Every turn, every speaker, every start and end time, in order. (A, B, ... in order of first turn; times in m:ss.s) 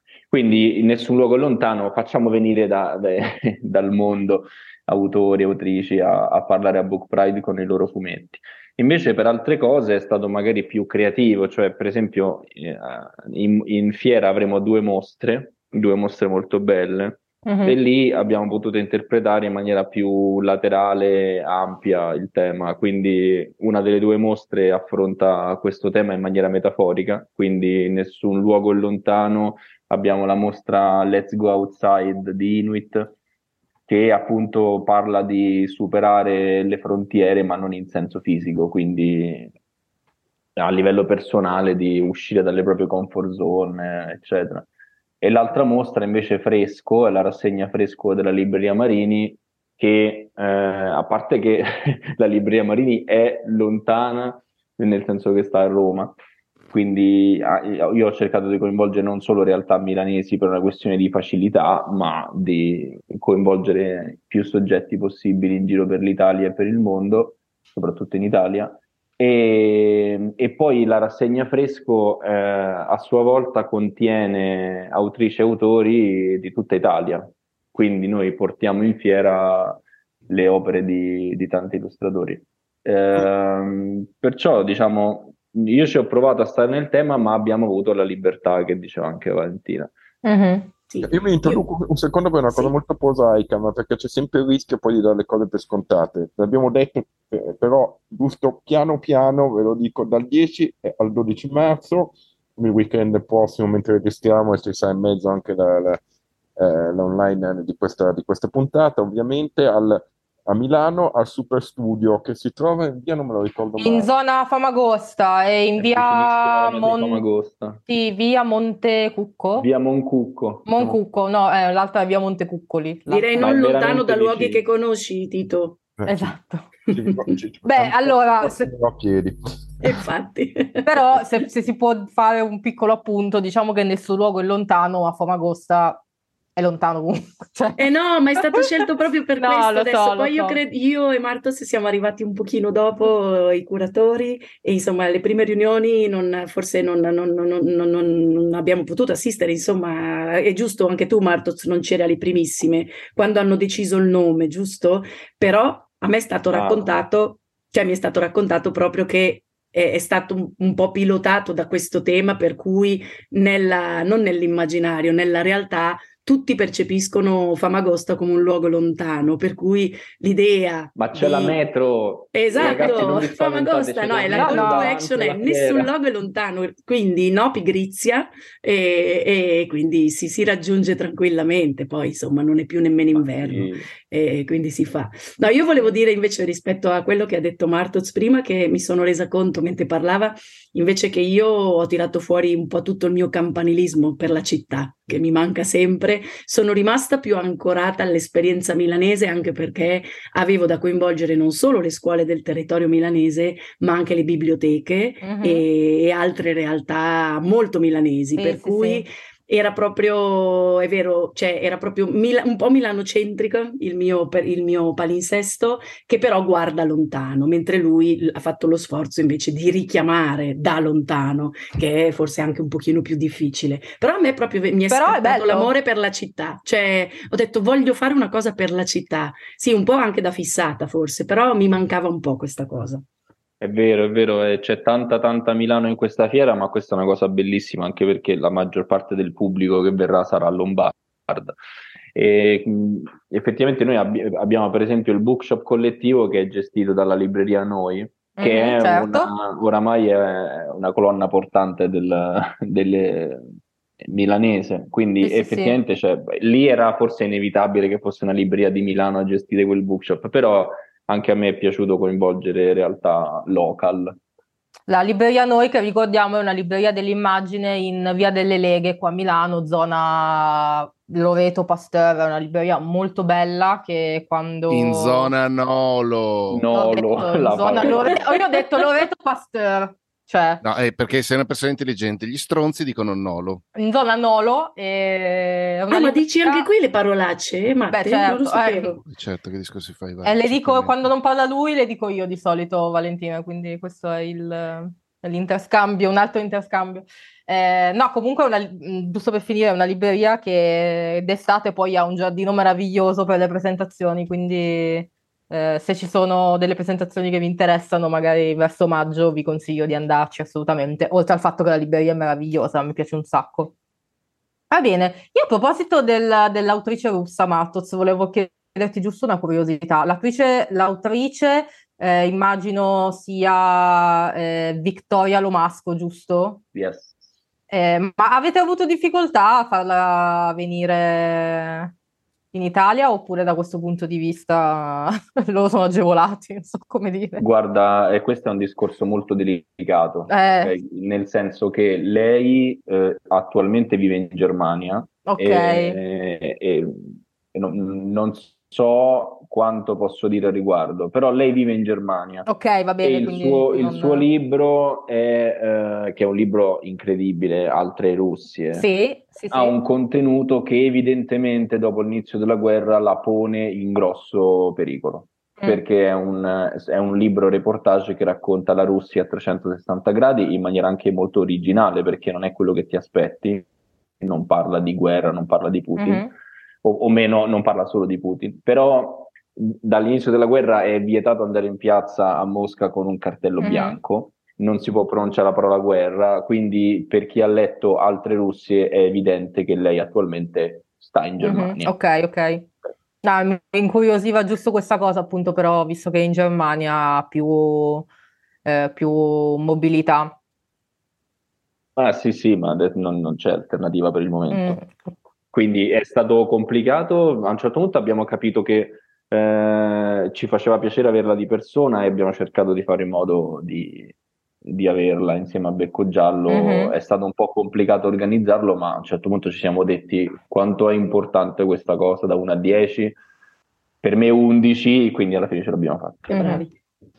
0:00.3-0:33.2 A
0:17.4-0:17.8 B
0:33.9-0:39.5 A
0:40.6-0:44.7 A
0:45.2-0:56.2 A
0:56.7-1:29.9 A
1:30.2-1:30.7 B
1:30.9-1:31.6 C
1:31.0-1:46.0 D
1:46.6-1:54.1 D
1:53.8-1:57.2 B
1:55.8-1:57.8 A
1:57.9-1:59.7 B
1:59.6-2:01.0 A
2:00.7-2:03.4 B
2:03.1-2:05.8 C
2:03.4-2:04.6 A
2:06.0-2:06.3 D
2:06.1-2:06.7 B
2:06.9-2:09.9 D
2:07.6-2:08.7 B
2:09.8-2:11.2 C
2:10.9-2:16.0 B
2:16.6-2:17.8 B
2:17.8-2:51.6 C
2:19.4-2:20.6 B
2:36.5-2:37.0 A
2:51.0-2:55.9 A
2:52.3-3:53.0 C
2:52.8-2:53.1 B
2:54.4-2:55.0 B
3:03.2-3:03.9 A
3:25.2-3:25.6 B
3:28.4-3:29.0 B
3:44.9-3:45.7 B
3:53.6-4:01.6 A
4:02.1-4:13.5 A
4:08.4-4:09.3 B
4:14.1-4:24.2 A
4:15.2-4:15.8 B
4:24.9-4:35.3 B
4:34.7-4:36.6 E
4:36.5-4:38.3 A
4:36.7-4:40.6 B
4:37.8-4:38.2 C
4:40.6-4:43.6 E
4:43.8-4:46.7 B
4:45.9-4:49.0 C
4:47.9-4:48.9 B
4:49.1-4:51.0 E
4:50.2-5:13.7 B
5:14.7-5:26.6 B
5:26.8-5:27.2 A
5:27.7-5:31.9 B
5:32.5-5:37.4 B
5:37.4-5:52.5 A
5:40.3-5:40.7 B
5:45.3-5:46.0 B
5:52.5-5:54.3 B
5:53.0-5:58.9 A
5:58.8-5:59.8 B
5:59.5-6:13.7 A
6:14.2-6:16.3 A
6:16.0-6:16.3 B
6:16.8-6:31.9 A
6:23.6-6:24.0 B
6:31.4-6:32.7 B
6:33.2-6:38.1 B
6:38.6-6:40.4 B
6:42.0-6:44.8 A
6:44.5-6:45.1 B
6:45.5-6:54.1 A
6:54.6-7:03.2 A
6:56.5-6:56.9 B
7:04.0-7:06.4 A
7:06.3-7:06.6 B
7:06.3-7:06.7 C